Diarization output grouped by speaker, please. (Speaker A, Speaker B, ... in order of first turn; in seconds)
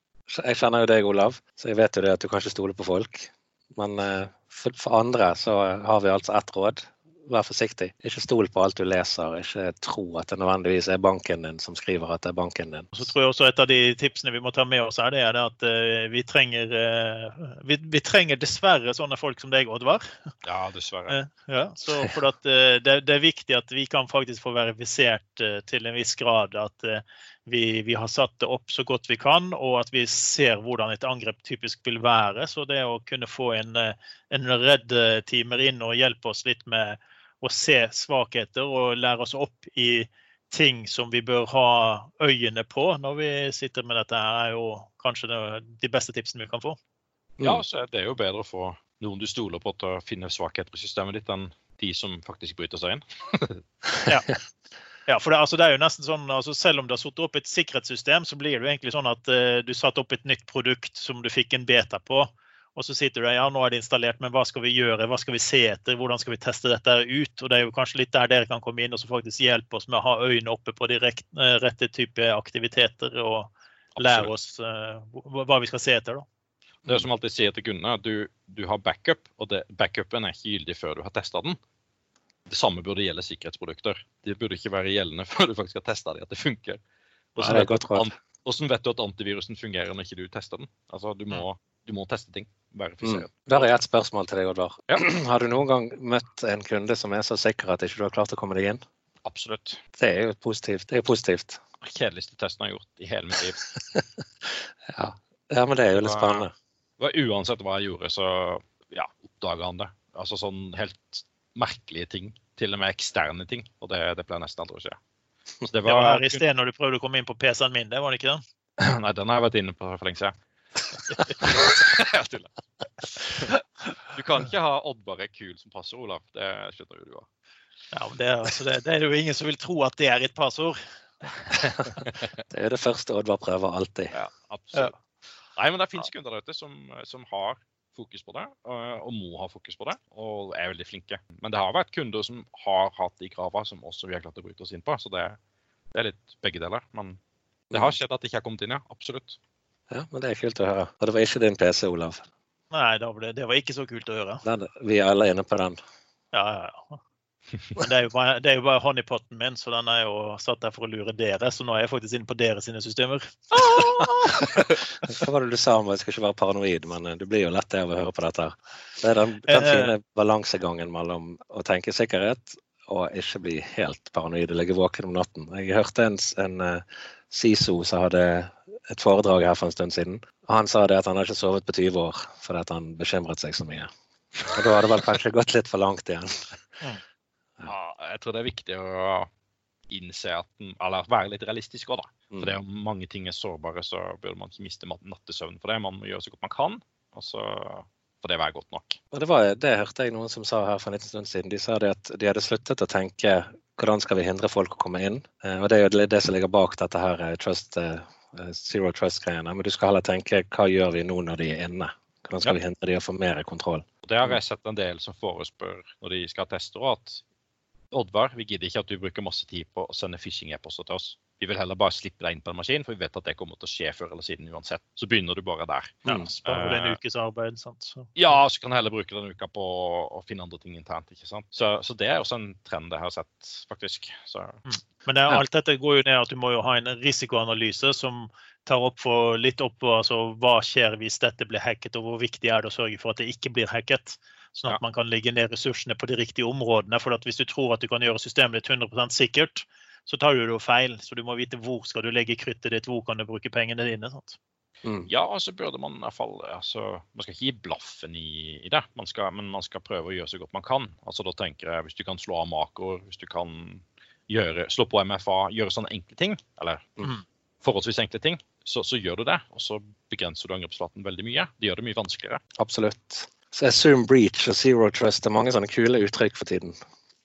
Speaker A: 0.3-12.9, 87.4-88.1, 93.0-98.8, 100.0-101.6, 104.9-106.5, 132.5-134.2, 149.9-152.3, 154.4-155.8, 165.0-183.9, 184.5-186.6, 199.1-214.4, 254.8-255.1, 272.6-276.8
Speaker B: 12.9-20.1, 21.1-46.8, 55.1-76.2, 115.8-118.4, 127.9-130.8, 152.7-154.4, 156.3-157.0, 157.8-164.1, 169.5-169.9, 226.1-228.1, 234.7-254.4
Speaker C: 20.4-21.2, 47.4-53.6, 74.0-74.3, 76.9-81.6, 82.5-86.8, 87.3-93.7, 99.2-99.8, 101.8-103.6, 106.0-106.5, 107.0-115.0, 115.6-116.4, 118.8-120.3, 121.4-122.5, 123.0-127.3, 134.1-135.0, 135.6-145.4, 145.9-147.2, 147.7-149.4, 163.6-164.8, 187.7-189.3, 189.9-199.0, 214.0-217.2, 217.9-227.0, 228.2-234.6, 255.1-267.1, 267.6-272.4